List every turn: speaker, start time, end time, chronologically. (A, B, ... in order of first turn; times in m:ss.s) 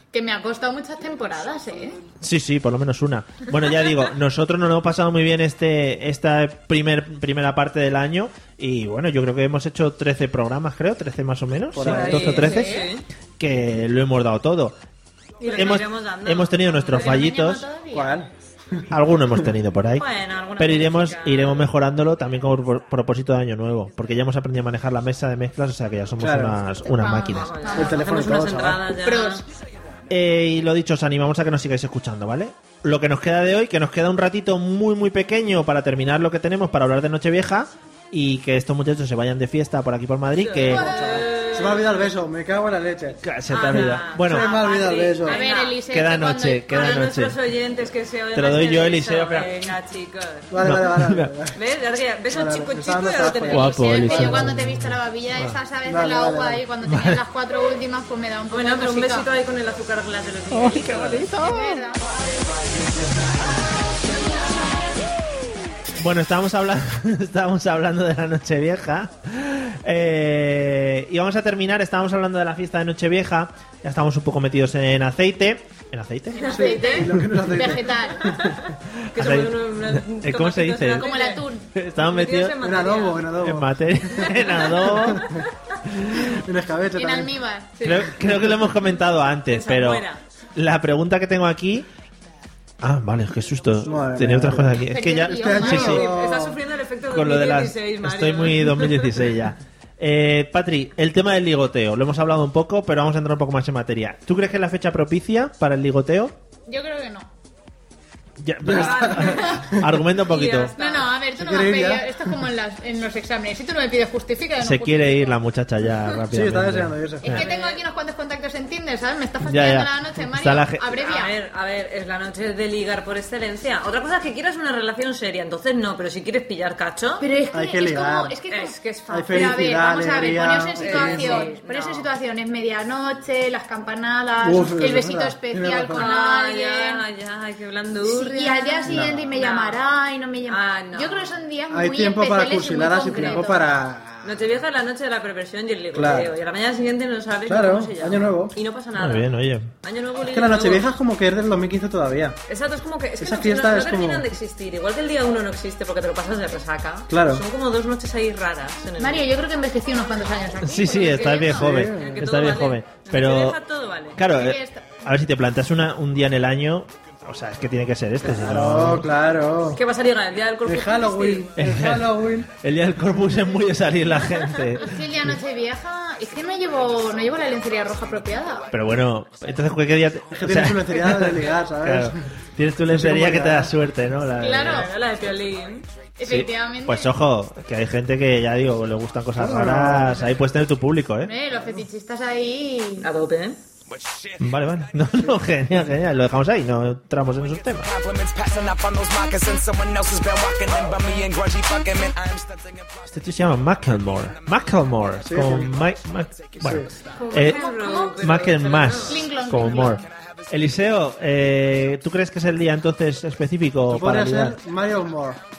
0:00.1-0:02.0 A
0:02.2-0:14.8 B
0:11.7-0:12.6 C
0:11.8-0:13.0 D
0:12.3-0:12.9 A
0:15.4-0:17.4 D
0:15.4-0:17.7 B
0:16.9-0:18.3 A
0:17.9-0:18.8 C
0:18.9-0:27.5 B
0:20.0-0:21.7 D
0:26.2-0:26.6 C
0:26.8-0:28.0 A
0:27.3-0:29.4 D
0:27.8-0:28.8 C
0:29.0-0:29.4 A
0:30.1-0:40.9 B
0:40.4-0:42.1 D
0:40.7-0:43.2 C
0:40.7-0:41.7 A
0:43.2-0:44.5 B
0:43.5-0:45.8 D
0:44.3-0:45.4 C
0:44.5-0:47.1 A
0:45.9-0:47.4 B
0:46.7-0:50.5 D
0:48.3-0:49.7 B
0:50.5-0:51.6 C
0:50.6-0:51.3 B
0:51.6-0:54.3 D
0:52.3-0:54.5 C
0:53.5-0:55.6 B
0:53.7-0:59.3 A
0:55.9-0:56.6 C
0:56.8-0:57.2 B
0:58.5-1:01.3 D
1:00.5-1:01.8 B
1:01.3-1:02.0 A
1:06.0-1:16.6 B
1:16.4-1:18.3 A
1:16.4-1:17.1 D
1:16.5-1:18.6 C
1:18.2-1:21.4 D
1:19.1-1:21.1 B
1:21.0-1:21.7 A
1:21.8-1:22.6 B
1:22.0-1:23.4 D
1:22.6-1:23.7 C
1:23.4-1:25.2 B
1:24.2-1:25.3 D
1:24.8-1:25.4 C
1:26.0-1:26.3 B
1:26.3-1:27.3 C
1:27.0-1:27.9 A
1:27.8-1:28.2 D
1:27.8-1:31.9 B
1:29.5-1:30.2 D
1:32.8-1:36.1 B
1:33.8-1:34.8 C
1:34.9-1:36.0 A
1:35.3-1:36.6 C
1:35.7-1:39.2 D
1:37.1-1:46.3 B
1:46.7-1:47.3 A
1:48.4-1:50.7 B
1:48.6-1:49.8 C
1:48.7-1:49.7 D
1:50.2-1:51.2 D
1:50.8-1:55.4 A
1:51.4-1:52.3 C
1:54.6-1:57.5 B
1:56.3-1:57.4 C
1:57.2-2:01.3 A
1:57.3-1:57.8 D
1:59.4-2:00.8 B
2:01.0-2:07.2 D
2:07.2-2:17.0 A
2:07.5-2:08.4 C
2:08.5-2:09.6 D
2:09.1-2:11.5 C
2:10.8-2:12.1 D
2:14.4-2:16.1 C
2:16.0-2:19.8 D
2:18.0-2:23.6 A
2:18.9-2:19.4 C
2:20.5-2:21.4 D
2:21.7-2:24.4 C
2:23.1-2:23.4 D
2:24.2-2:29.3 D
2:25.9-2:26.3 C
2:27.4-2:28.6 C
2:29.0-2:29.7 B
2:29.8-2:30.8 D
2:30.2-2:32.4 C
2:32.5-2:39.3 D
2:33.2-2:34.3 C
2:37.1-2:37.4 C
2:39.0-2:41.7 A
2:40.6-2:43.6 B
2:41.4-2:42.2 C
2:41.9-2:44.2 D
2:44.2-2:49.1 B
2:44.3-2:44.9 A
2:48.3-2:49.8 C
2:49.8-2:51.5 D
2:50.6-2:52.5 C
2:51.6-2:55.4 B
2:54.3-2:54.7 D
2:54.8-2:58.7 A
2:58.7-3:04.9 B
3:00.3-3:02.2 C
3:02.9-3:03.7 C
3:04.4-3:04.9 A
3:04.6-3:05.9 D
3:06.2-3:07.1 A
3:06.2-3:11.3 B
3:09.4-3:10.2 C
3:11.2-3:13.1 A
3:13.0-3:13.6 D
3:13.9-3:14.5 E
3:14.4-3:17.9 B
3:17.8-3:23.0 E
3:23.1-3:27.6 B
3:24.3-3:25.2 E
3:25.2-3:25.7 C
3:26.3-3:26.6 E
3:26.6-3:26.9 C
3:27.2-3:29.3 D
3:27.3-3:28.4 A
3:28.2-3:34.6 B
3:29.1-3:30.0 A
3:29.8-3:30.8 E
3:33.9-3:35.4 C